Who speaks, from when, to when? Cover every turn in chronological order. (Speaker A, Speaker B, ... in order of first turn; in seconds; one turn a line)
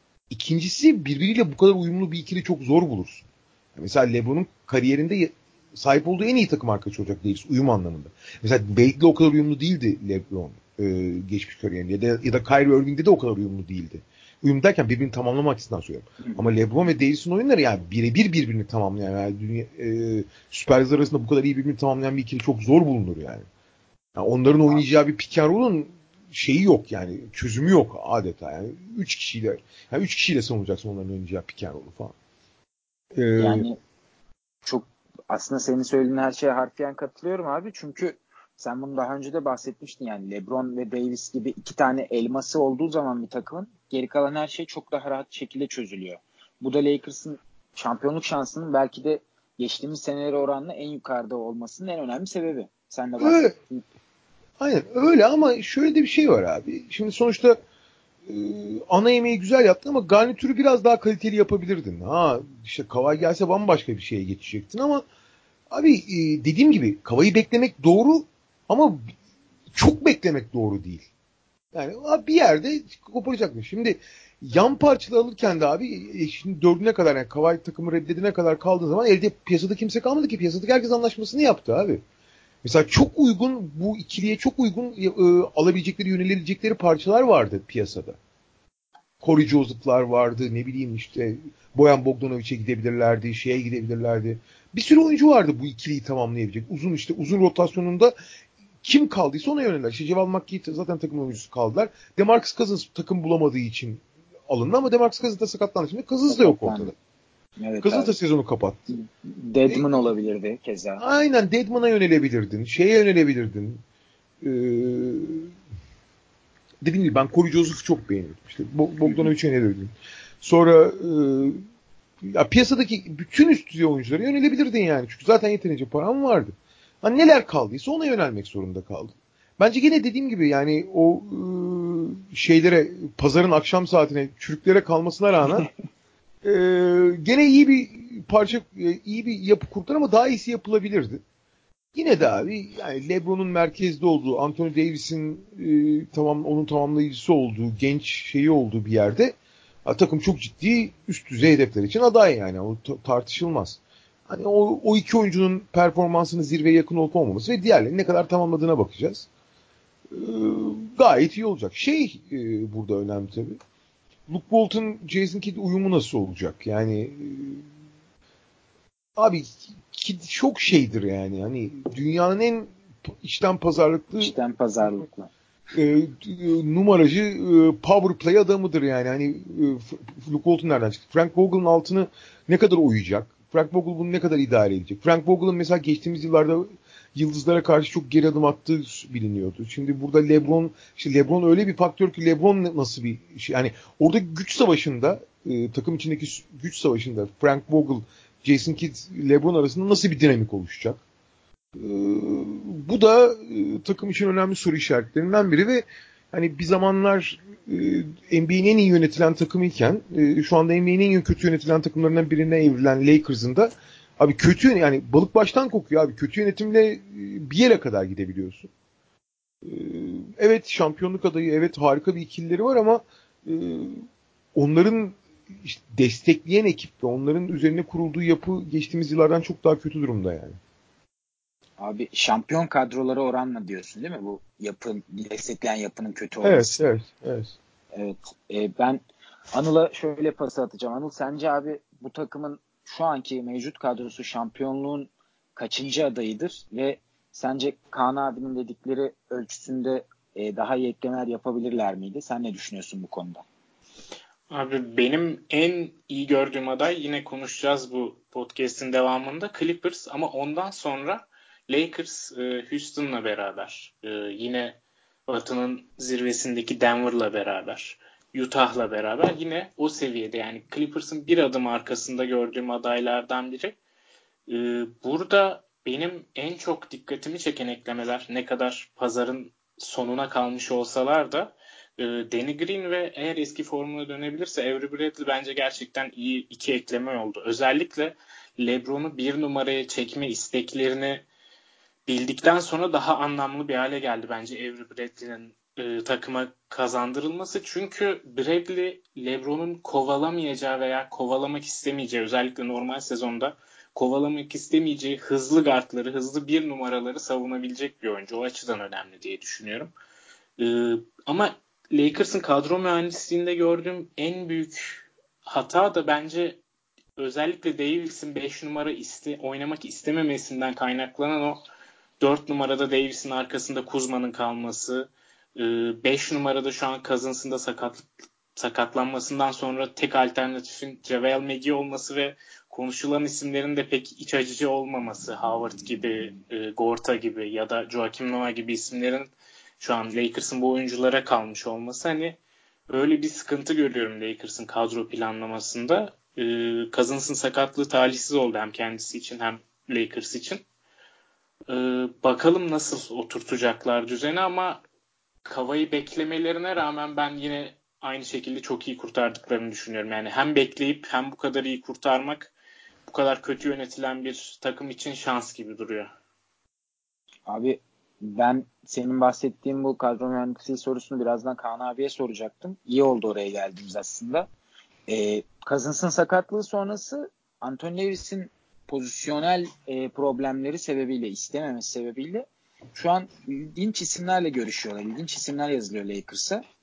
Speaker A: 0.3-23.5
Speaker B: 16.2-16.5
Speaker A: 24.2-32.1
Speaker A: 33.1-33.7
Speaker B: 33.4-33.8
Speaker B: 34.6-53.8
Speaker A: 53.2-53.5
Speaker A: 54.6-57.6
Speaker A: 58.3-65.0
Speaker A: 65.7-69.1
Speaker A: 69.7-71.1
Speaker A: 71.7-82.0
Speaker A: 82.6-88.2
Speaker A: 89.2-98.2
Speaker A: 98.8-106.9
Speaker B: 106.3-106.9
Speaker B: 107.6-108.1
Speaker A: 107.8-108.8
Speaker B: 108.9-111.0
Speaker A: 111.0-113.8
Speaker A: 114.4-115.5
Speaker A: 116.8-121.6
Speaker A: 122.2-135.7
Speaker A: 136.4-141.2
Speaker A: 141.9-159.3
Speaker A: 160.1-163.6
Speaker A: 164.3-167.7
Speaker A: 169.2-174.3
Speaker B: 174.2-175.3
Speaker A: 175.7-201.0
Speaker A: 201.8-218.7
Speaker A: 219.6-230.6
Speaker B: 231.8-236.8
Speaker A: 236.4-237.6
Speaker B: 237.9-239.0
Speaker B: 239.5-253.4
Speaker C: 254.5-273.8
Speaker C: 274.5-291.2
Speaker C: 292.1-309.9
Speaker C: 310.6-316.6
Speaker C: 317.2-321.6
Speaker C: 322.2-350.6
Speaker C: 351.7-354.8
Speaker C: 355.4-362.5
Speaker C: 363.1-366.1
Speaker B: 367.5-374.5
Speaker B: 375.1-386.6